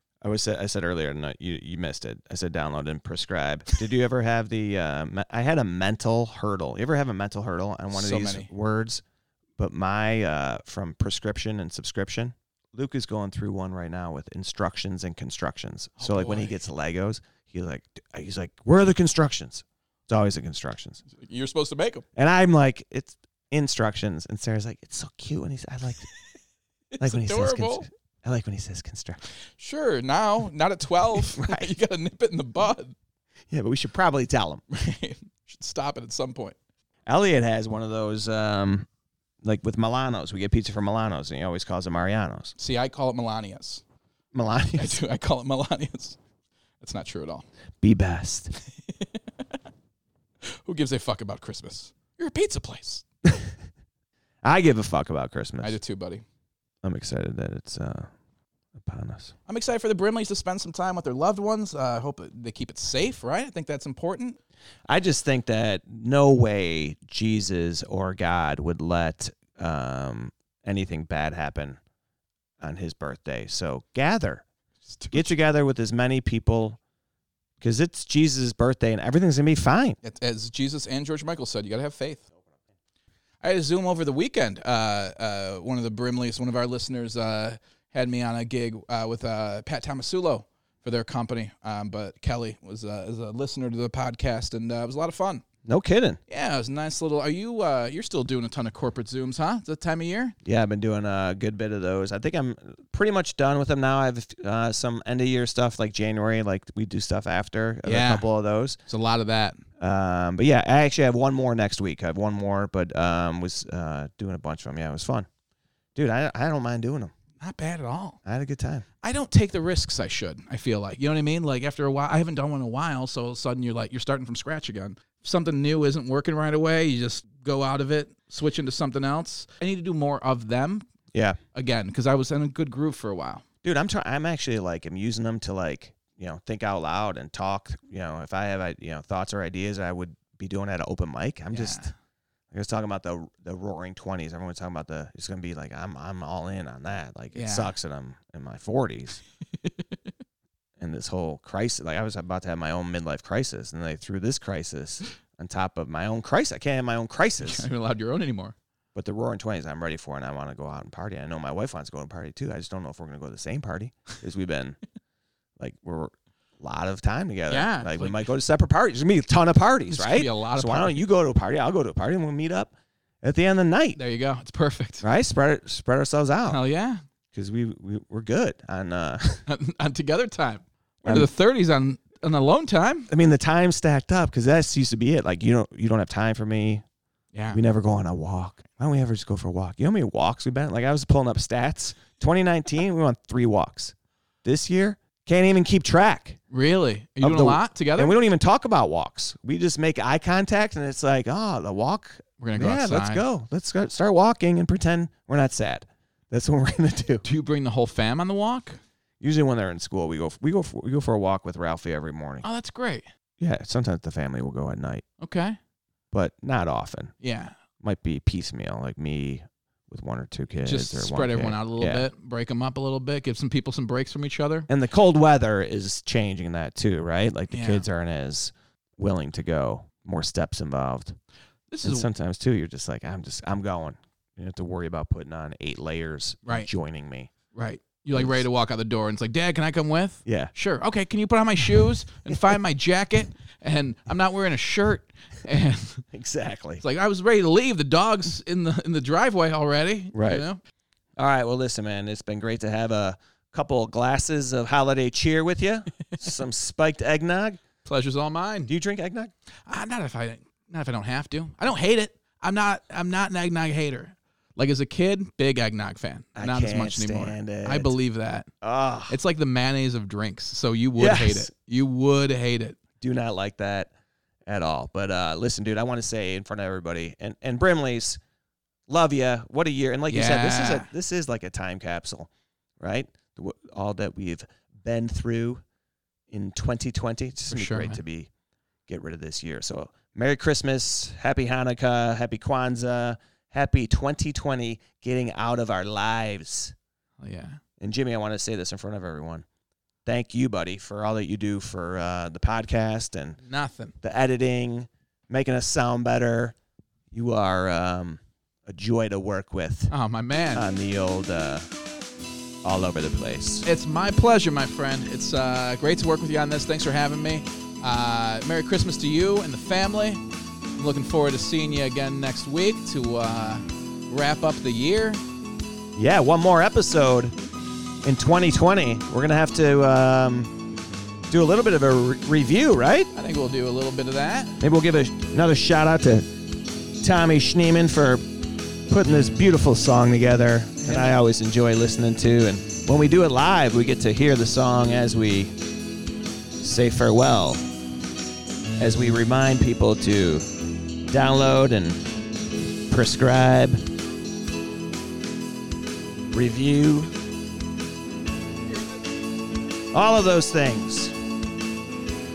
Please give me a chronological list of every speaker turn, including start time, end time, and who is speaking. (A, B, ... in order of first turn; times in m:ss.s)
0:00.2-0:09.0 A
0:07.9-0:08.5 B
0:09.6-0:21.0 A
0:16.0-0:16.6 B
0:21.1-0:22.0 B
0:22.2-0:26.1 A
0:26.9-0:27.8 B
0:27.0-0:29.2 A
0:29.6-0:32.9 B
0:31.2-0:31.7 A
0:33.5-0:34.6 A
0:34.7-0:36.6 B
0:37.1-0:38.9 A
0:39.4-0:42.5 A
0:42.6-0:43.8 B
0:44.3-0:44.9 A
0:44.7-0:46.2 B
0:46.8-0:47.4 B
0:47.8-0:48.5 A
0:48.9-0:49.2 B
0:50.4-0:53.0 B
0:53.2-0:53.5 A
0:54.4-0:55.8 A
0:55.6-0:56.2 B
0:56.8-0:58.1 A
0:58.8-0:59.3 A
0:59.5-1:04.4 B
1:04.9-1:11.8 A
1:12.6-1:14.4 A
1:14.9-1:15.2 B
1:15.1-1:16.8 A
1:17.6-1:20.0 A
1:20.0-1:22.2 B
1:23.4-1:35.4 B
1:35.6-1:36.2 A
1:36.3-1:40.4 B
1:40.4-1:48.8 A
1:47.8-1:48.2 B
1:48.8-1:49.6 B
1:49.8-1:55.3 A
1:56.0-1:57.1 A
1:57.4-1:58.2 B
1:58.2-1:58.8 A
1:59.0-2:10.8 B
2:11.1-2:11.4 A
2:11.5-2:13.4 B
2:13.6-2:21.9 A
2:21.5-2:21.9 B
2:22.5-2:29.2 A
2:27.3-2:27.7 B
2:30.8-2:37.6 A
2:37.4-2:38.5 B
2:38.9-2:44.8 A
2:45.6-2:54.0 A
2:47.5-2:48.3 B
2:49.9-2:51.0 B
2:54.0-2:55.0 B
2:55.0-2:56.6 A
2:56.5-2:57.0 B
2:57.3-2:59.4 A
2:59.5-3:03.1 B
3:01.0-3:01.3 A
3:03.1-3:06.8 A
3:07.3-3:07.6 B
3:07.5-3:16.4 A
3:16.5-3:18.1 B
3:17.2-3:27.2 A
3:22.4-3:23.2 B
3:27.2-3:28.8 B
3:29.2-3:32.4 A
3:32.4-3:33.0 B
3:33.4-3:35.0 A
3:35.2-3:35.6 B
3:36.1-3:37.1 A
3:37.2-3:37.6 B
3:37.8-3:42.1 A
3:40.6-3:44.7 B
3:44.7-3:51.2 A
3:47.5-3:47.8 B
3:51.7-3:52.1 B
3:51.8-3:57.3 A
3:57.5-4:06.0 B
3:58.1-3:58.4 A
4:00.2-4:00.5 A
4:06.1-4:06.8 A
4:06.8-4:10.6 B
4:10.1-4:10.4 A
4:11.2-4:17.6 A
4:17.8-4:18.7 B
4:18.7-4:19.3 A
4:19.7-4:28.5 B
4:26.4-4:27.9 A
4:28.6-4:29.2 A
4:29.1-4:32.8 B
4:31.0-4:31.5 A
4:33.0-4:33.9 A
4:34.5-4:38.2 A
4:38.9-4:45.6 A
4:40.1-4:40.9 B
4:46.3-4:48.3 A
4:47.5-4:48.0 B
4:48.9-4:56.7 A
4:57.2-4:57.6 B
4:57.8-4:59.4 A
5:00.0-5:03.4 A
5:03.4-5:03.9 B
5:04.0-5:06.5 A
5:07.1-5:09.9 A
5:09.9-5:10.6 B
5:10.5-5:11.7 A
5:12.6-5:13.6 A
5:13.6-5:20.2 B
5:20.8-5:25.2 B
5:26.0-5:27.3 A
5:28.0-5:30.5 A
5:31.3-5:33.1 A
5:33.1-5:34.6 B
5:34.6-5:36.2 A
5:37.0-5:38.2 A
5:38.9-5:45.5 A
5:40.8-5:41.2 B
5:46.6-5:47.6 A
5:48.8-5:50.4 A
5:51.1-5:52.0 A
5:52.9-5:53.8 A
5:56.3-5:57.1 A
5:59.9-6:01.1 A